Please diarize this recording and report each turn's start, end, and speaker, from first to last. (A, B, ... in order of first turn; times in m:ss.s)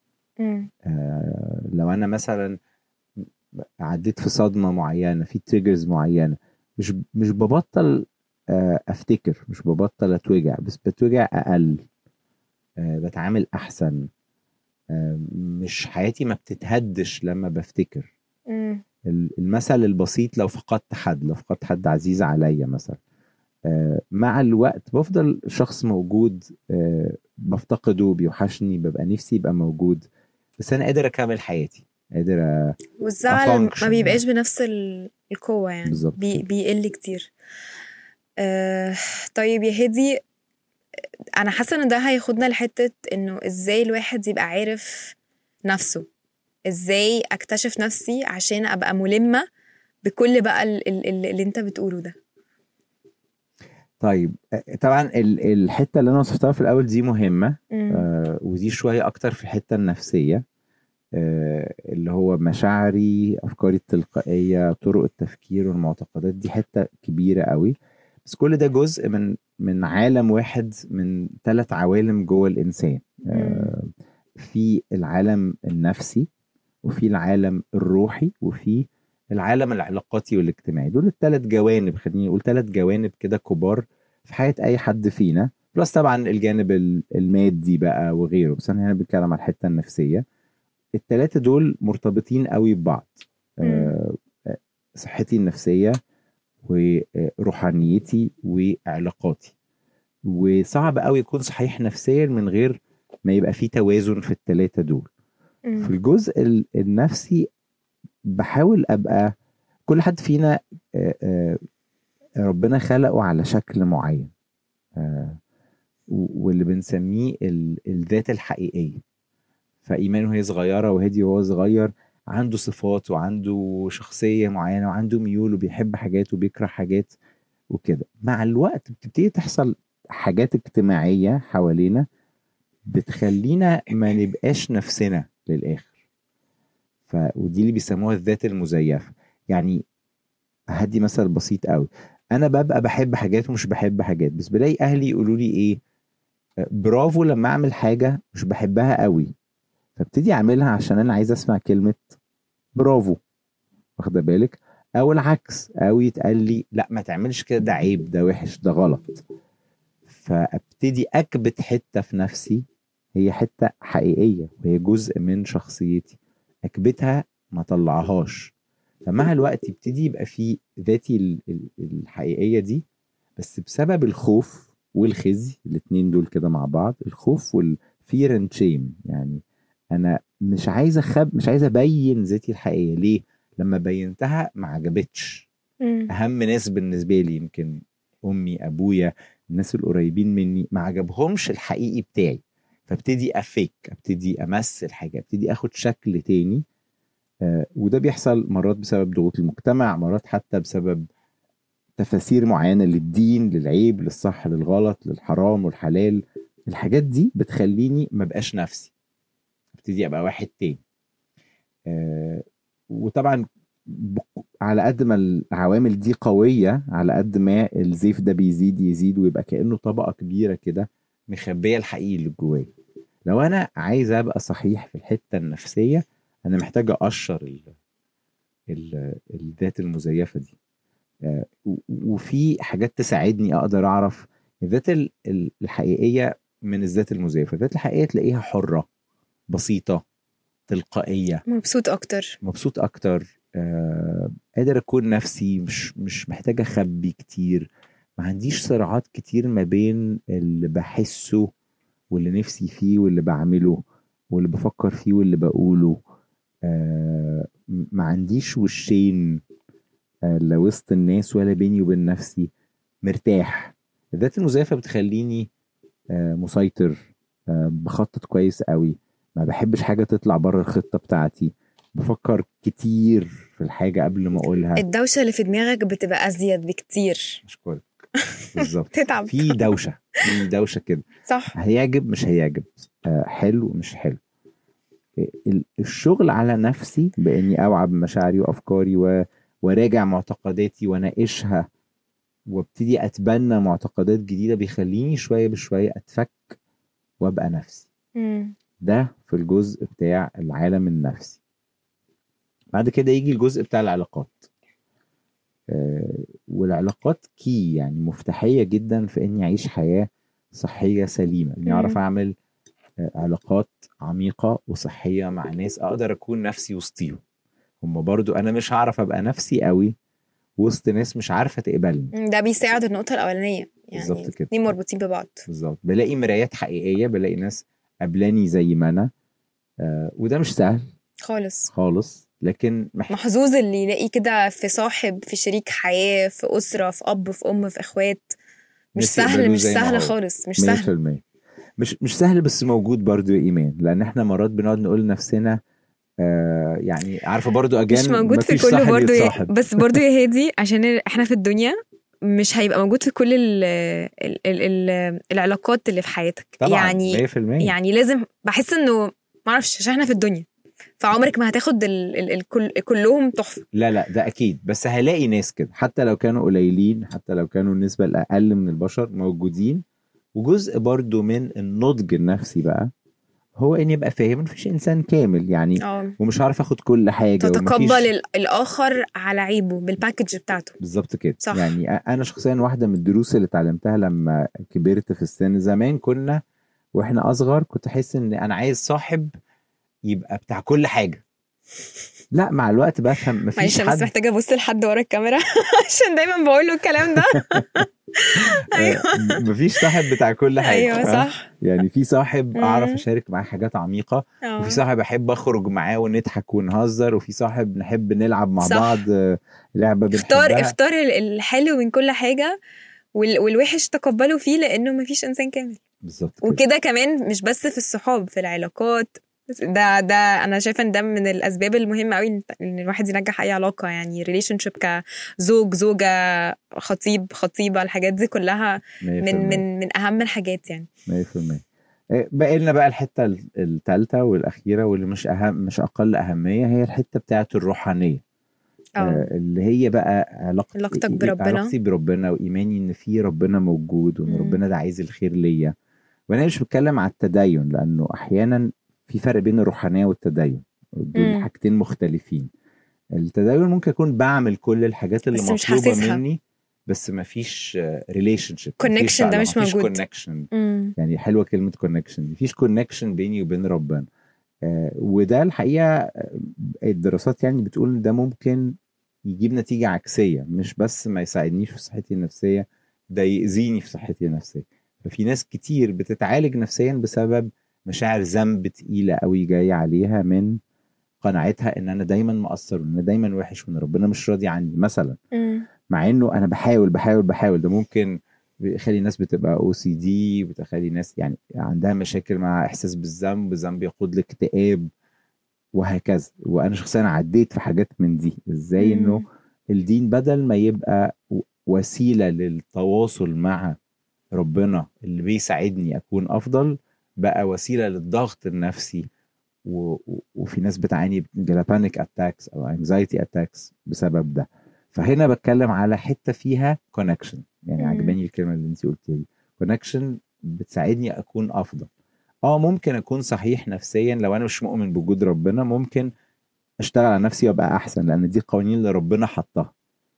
0:00.4-0:00.7 A
0:00.8-0:02.5 B
0:03.8-0:11.8 B
0:12.8-0:14.0 B
0:14.9-0:18.1 B
0:18.5-0:18.8 A
0:19.1-0:23.0 B
0:23.7-0:30.0 B
0:30.6-0:32.8 B
0:33.0-0:37.3 A
0:33.3-0:34.2 B
0:35.9-0:36.4 B
0:38.4-0:40.2 A
0:41.4-0:45.2 A
0:45.7-0:46.0 A
0:46.7-0:49.4 A
0:50.0-0:52.2 A
0:54.0-1:00.4 B
0:57.7-0:58.1 A
1:01.2-1:07.7 B
1:08.2-1:16.3 B
1:13.3-1:13.7 A
1:16.8-1:18.8 B
1:19.4-1:30.2 B
1:31.0-1:35.9 B
1:33.6-1:33.9 A
1:36.6-1:39.5 B
1:40.3-1:42.8 B
1:43.3-1:45.1 B
1:45.7-1:45.9 A
1:45.8-1:47.4 B
1:48.4-1:49.3 B
1:49.9-1:51.6 B
1:52.4-1:54.3 B
1:55.0-1:55.4 B
1:56.1-1:59.0 B
1:59.8-2:07.1 B
2:07.7-2:12.0 B
2:12.9-2:15.9 B
2:17.1-2:19.8 B
2:20.8-2:25.8 B
2:26.8-2:29.3 B
2:30.0-2:32.2 B
2:32.8-2:33.2 B
2:34.0-2:39.2 B
2:40.1-2:42.6 B
2:43.2-2:48.5 B
2:49.0-2:52.8 B
2:53.4-2:59.4 B
2:59.9-3:05.5 B
3:05.8-3:06.1 A
3:06.1-3:16.6 B
3:17.4-3:21.0 B
3:22.0-3:28.9 B
3:29.8-3:30.8 B
3:31.9-3:42.7 B
3:43.3-3:47.7 B
3:48.7-3:50.5 B
3:51.2-3:58.9 B
3:59.5-4:00.0 B
4:00.7-4:01.4 B
4:01.5-4:02.4 A
4:02.4-4:11.5 B
4:12.1-4:16.0 B
4:16.6-4:19.4 B
4:20.3-4:22.5 B
4:23.0-4:25.5 B
4:26.1-4:34.8 B
4:34.8-4:37.4 A
4:37.4-4:37.8 B
4:38.3-4:39.7 A
4:38.5-4:44.2 B
4:41.3-4:41.6 A
4:45.2-4:49.1 B
4:49.6-4:51.6 B
4:52.5-4:56.5 B
4:57.2-4:57.9 B
4:58.2-4:58.6 A
4:58.8-5:01.4 B
5:02.8-5:04.5 B
5:05.7-5:12.3 B
5:11.7-5:12.0 A
5:13.0-5:17.2 B
5:17.8-5:19.9 B
5:20.6-5:22.1 B
5:22.2-5:25.5 A
5:23.9-5:24.5 B
5:25.5-5:29.1 B
5:29.8-5:30.8 B
5:31.2-5:31.7 A
5:31.7-5:33.1 B
5:33.1-5:38.4 A
5:39.0-5:40.9 A
5:39.0-5:41.2 B
5:41.8-5:45.6 B
5:46.2-5:50.0 B
5:47.9-5:51.8 A
5:52.3-6:00.5 A
5:56.6-5:57.7 B
6:01.0-6:03.7 A
6:03.7-6:09.8 B
6:10.4-6:12.9 B
6:13.6-6:18.1 B
6:15.8-6:16.2 A
6:17.4-6:20.8 A
6:20.8-6:26.4 B
6:21.4-6:21.7 A
6:27.0-6:29.3 B
6:30.1-6:31.2 B
6:32.3-6:34.1 B
6:33.6-6:39.9 A
6:38.7-6:50.8 B
6:40.6-6:41.5 A
6:42.6-6:43.0 A
6:44.4-6:44.8 A
6:48.6-6:49.0 A
6:50.1-6:52.6 A
6:53.2-6:55.8 A
6:56.0-6:56.6 B
6:56.4-7:10.9 A
7:09.0-7:09.6 B
7:11.1-7:11.6 B
7:12.2-7:18.2 B
7:19.0-7:19.3 A
7:19.0-7:25.7 B
7:20.8-7:21.7 A
7:24.3-7:24.6 A
7:26.3-7:32.5 B
7:31.2-7:31.5 A
7:33.2-7:44.1 B
7:35.3-7:36.2 A
7:38.8-7:40.0 A
7:40.5-7:41.0 A
7:44.6-7:48.7 B
7:49.3-8:00.6 B
8:01.2-8:05.2 B
8:05.3-8:05.7 A
8:05.9-8:08.1 B
8:08.6-8:14.9 B
8:15.8-8:19.2 B
8:18.8-8:19.2 A
8:19.7-8:23.8 B
8:24.4-8:29.0 B
8:29.7-8:41.9 B
8:37.8-8:38.2 A
8:42.5-8:46.1 B
8:46.8-8:49.7 B